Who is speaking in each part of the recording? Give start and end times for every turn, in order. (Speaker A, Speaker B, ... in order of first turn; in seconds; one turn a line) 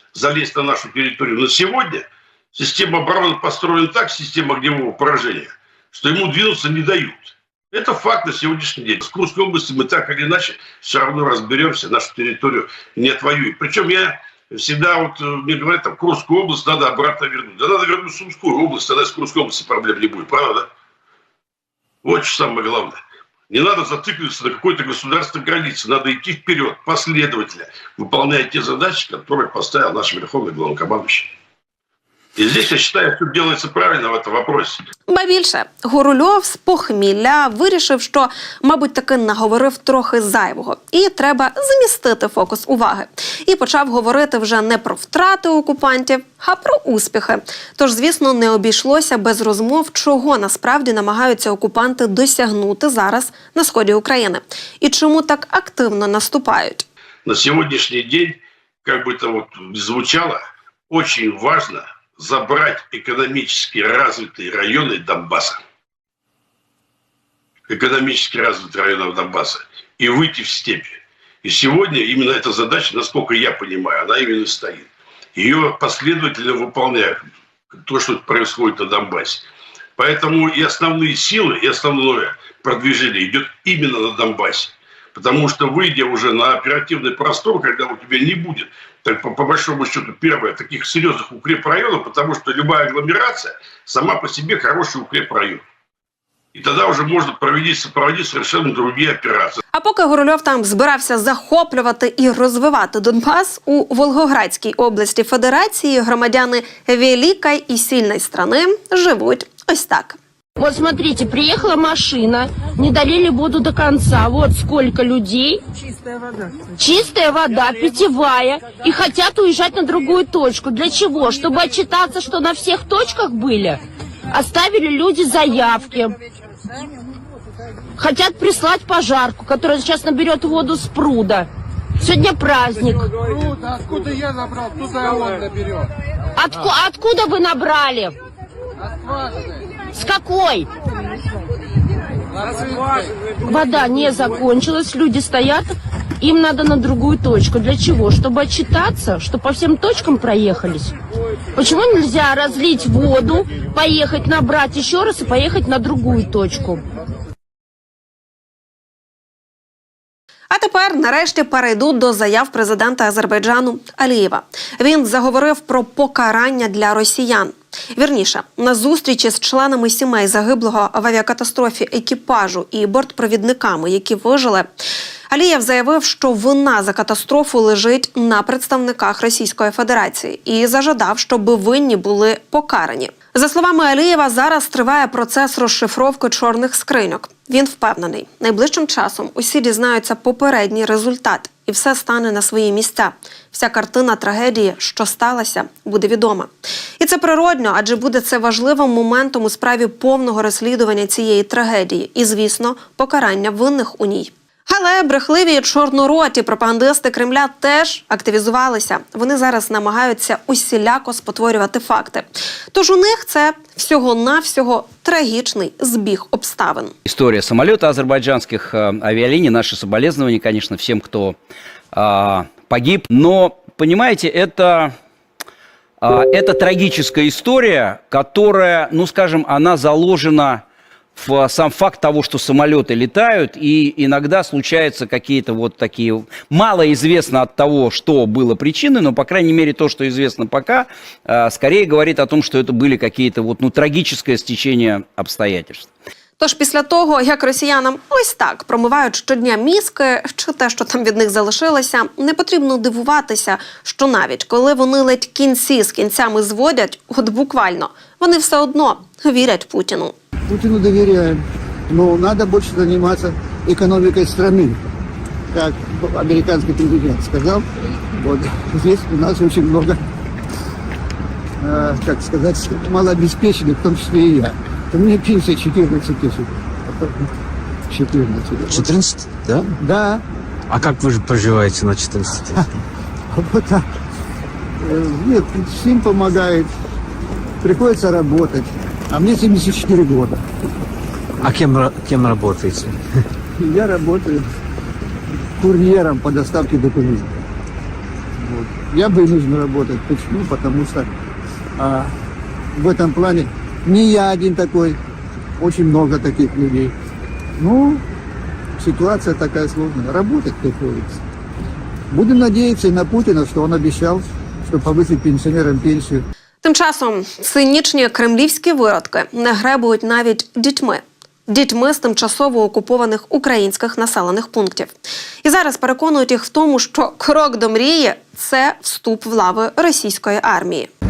Speaker A: 0.1-20.7
Speaker A: 22.0-23.0
Speaker A: 23.5-31.3
Speaker A: 32.4-34.8
Speaker B: 35.1-56.9
Speaker A: 57.3-65.6
Speaker A: 67.7-79.5
Speaker A: 80.0-95.6
Speaker A: 96.5-99.6
Speaker B: 99.7-110.2
Speaker C: 110.6-115.6
Speaker C: 116.8-126.2
Speaker C: 128.0-133.1
Speaker C: 136.4-138.2
Speaker C: 139.9-140.7
Speaker C: 143.4-150.9
Speaker C: 151.6-156.8
Speaker B: 160.5-174.7
Speaker B: 175.3-216.9
Speaker D: 217.1-221.3
Speaker D: 221.9-224.9
Speaker D: 226.0-230.6
Speaker D: 231.2-245.9
Speaker B: 246.4-260.1
Speaker E: 260.5-264.8
Speaker E: 265.5-270.0
Speaker E: 271.6-277.3
Speaker E: 277.9-278.9
Speaker F: 278.7-279.7
Speaker E: 279.8-280.2
Speaker F: 280.7-282.6
Speaker E: 283.3-283.9
Speaker E: 284.8-286.7
Speaker E: 287.6-290.4
Speaker F: 291.4-293.0
Speaker E: 293.6-294.4
Speaker E: 295.6-297.3
Speaker E: 298.4-301.1
Speaker E: 301.8-302.1
Speaker E: 302.8-305.0
Speaker E: 305.6-306.9
Speaker E: 307.6-308.0
Speaker E: 308.8-311.1
Speaker E: 312.1-316.2
Speaker B: 316.6-330.9